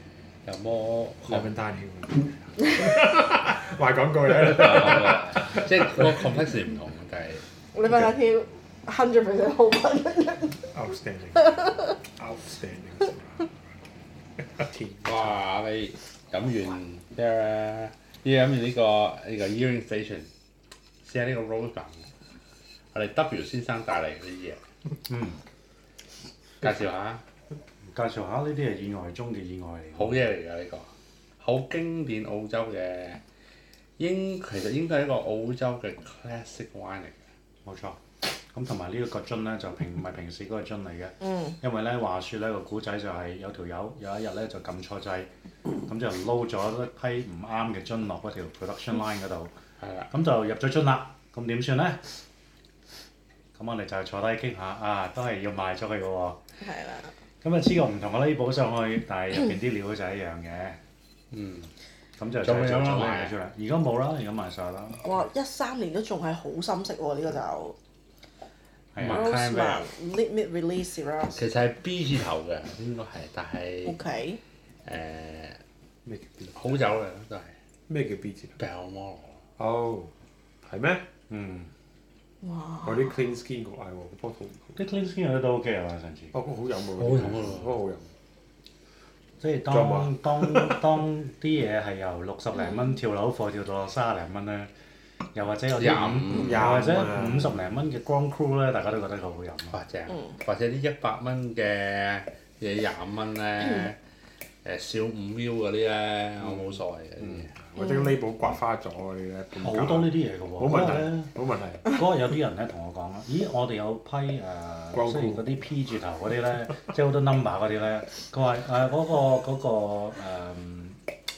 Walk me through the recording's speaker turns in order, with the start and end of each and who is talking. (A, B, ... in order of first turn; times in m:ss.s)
0:00.4-0:01.5 A
0:01.3-0:06.1 B
0:04.4-0:07.4 A
0:07.7-0:10.6 C
0:10.7-0:13.5 B
0:11.4-0:11.8 C
0:14.4-0:15.3 B
0:15.0-0:20.3 A
0:21.0-0:22.1 A
0:22.9-0:24.6 A
0:25.1-0:25.4 D
0:26.6-0:27.2 A
0:27.9-0:30.2 D
0:29.9-0:33.2 A
0:34.0-0:37.2 A
0:37.6-0:45.3 D
0:41.2-0:41.5 C
0:45.8-0:49.5 D
0:50.1-0:52.0 D
0:53.5-0:56.4 D
0:56.6-0:57.1 C
0:57.4-1:00.8 D
1:01.3-1:01.7 A
1:02.2-1:05.2 D
1:02.4-1:03.3 A
1:05.0-1:07.8 C
1:08.9-1:09.3 D
1:09.0-1:09.9 A
1:09.0-1:11.4 C
1:11.3-1:14.0 A
1:13.8-1:14.4 C
1:14.8-1:15.6 A
1:16.0-1:16.8 B
1:16.5-1:17.5 A
1:17.9-1:18.6 B
1:18.6-1:19.4 A
1:19.6-1:20.1 B
1:20.6-1:21.0 B
1:21.3-1:21.7 D
1:22.4-1:23.1 C
1:22.8-1:24.8 B
1:24.7-1:26.3 D
1:26.3-1:28.1 B
1:27.0-1:27.7 A
1:29.4-1:34.7 D
1:29.7-1:30.8 B
1:35.3-1:39.8 D
1:35.7-1:36.7 A
1:36.3-1:37.6 B
1:39.7-1:44.0 A
1:44.6-1:47.5 A
1:47.2-1:51.8 B
1:49.6-1:51.3 D
1:51.8-2:01.0 D
1:54.9-1:55.5 B